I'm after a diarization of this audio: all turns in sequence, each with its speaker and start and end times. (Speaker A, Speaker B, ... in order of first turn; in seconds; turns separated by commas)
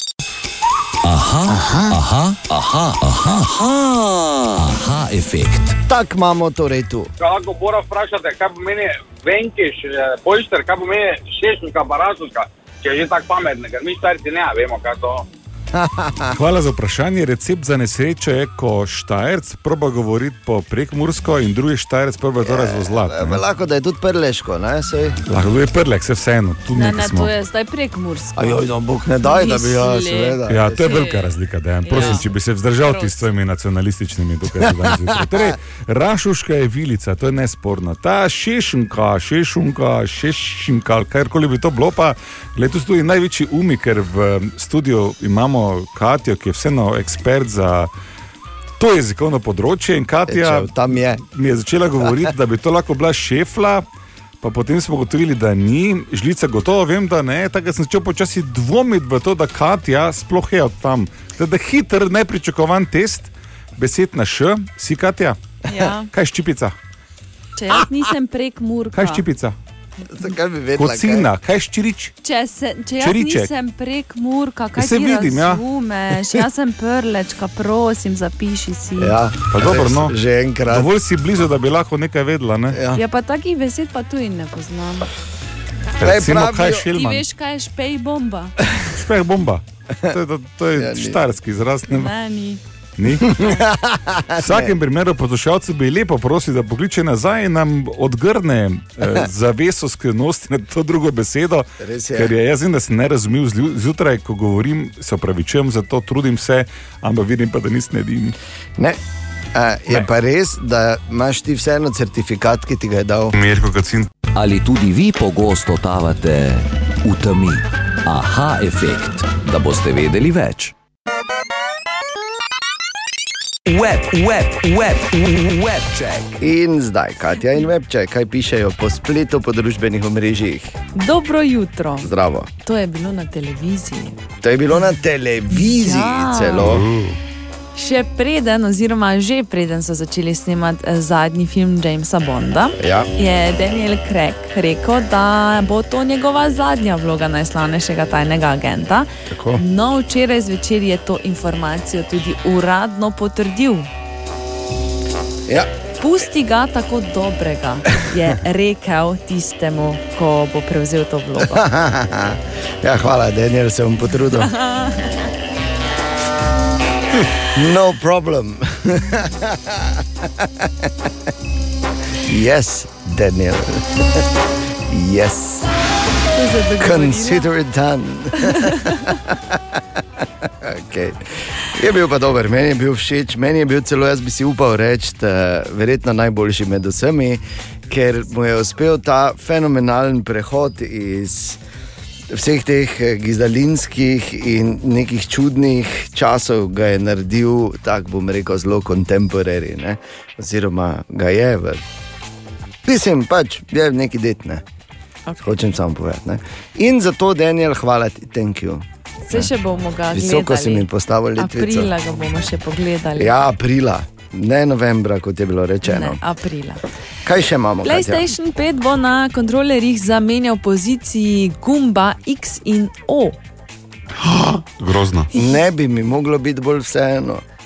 Speaker A: 1.0-5.8, Speaker B: 1.5-2.0, Speaker B: 5.9-7.1, Speaker C: 7.2-15.2, Speaker B: 15.7-16.4, Speaker D: 16.3-23.4, Speaker B: 22.4-25.2, Speaker D: 25.3-27.3, Speaker E: 26.7-28.6, Speaker B: 28.4-30.8, Speaker E: 29.2-31.3, Speaker D: 30.5-47.9, Speaker E: 31.8-32.3, Speaker E: 32.8-33.3, Speaker B: 34.7-35.5, Speaker D: 48.8-53.9, Speaker B: 50.3-51.2, Speaker B: 52.0-52.3, Speaker D: 54.4-65.4, Speaker E: 65.7-66.1, Speaker D: 66.1-66.7, Speaker E: 67.5-69.2, Speaker D: 68.9-69.5, Speaker B: 70.1-71.3, Speaker D: 70.8-72.1, Speaker E: 72.2-79.2, Speaker D: 73.0-73.5, Speaker D: 74.8-75.6, Speaker B: 79.0-80.9, Speaker D: 79.5-80.2, Speaker D: 80.7-82.8, Speaker B: 82.7-83.0, Speaker E: 82.9-85.1, Speaker D: 86.0-87.2, Speaker B: 86.0-86.9, Speaker E: 86.9-88.6, Speaker D: 88.9-92.1, Speaker B: 90.8-91.2, Speaker E: 91.9-92.6, Speaker D: 93.0-93.5, Speaker B: 93.2-94.7, Speaker D: 94.4-108.3, Speaker B: 101.8-102.3, Speaker B: 109.5-113.3, Speaker D: 113.3-114.1, Speaker A: 114.3-120.7, Speaker A: 123.7-126.4, Speaker B: 126.4-130.8, Speaker E: 130.9-132.1, Speaker B: 132.0-132.5, Speaker E: 132.6-134.2, Speaker B: 134.4-136.8, Speaker E: 135.5-136.7, Speaker D: 136.6-137.2, Speaker E: 137.7-153.9, Speaker B: 142.8-143.1, Speaker B: 149.3-149.6, Speaker E: 156.0-161.6, Speaker B: 161.4-164.5, Speaker E: 164.4-165.1, Speaker B: 167.4-171.1, Speaker B: 172.2-174.2, Speaker B: 174.9-175.7, Speaker E: 176.3-177.5, Speaker B: 176.8-191.6, Speaker E: 178.3-179.2, Speaker B: 192.3-201.8, Speaker B: 202.8-204.6, Speaker E: 205.3-205.7, Speaker B: 205.4-209.5, Speaker E: 209.2-213.4, Speaker B: 210.1-211.9, Speaker B: 213.2-216.2, Speaker E: 215.8-216.8, Speaker B: 217.2-218.3, Speaker E: 217.8-223.4, Speaker D: 224.2-225.3, Speaker B: 225.3-227.4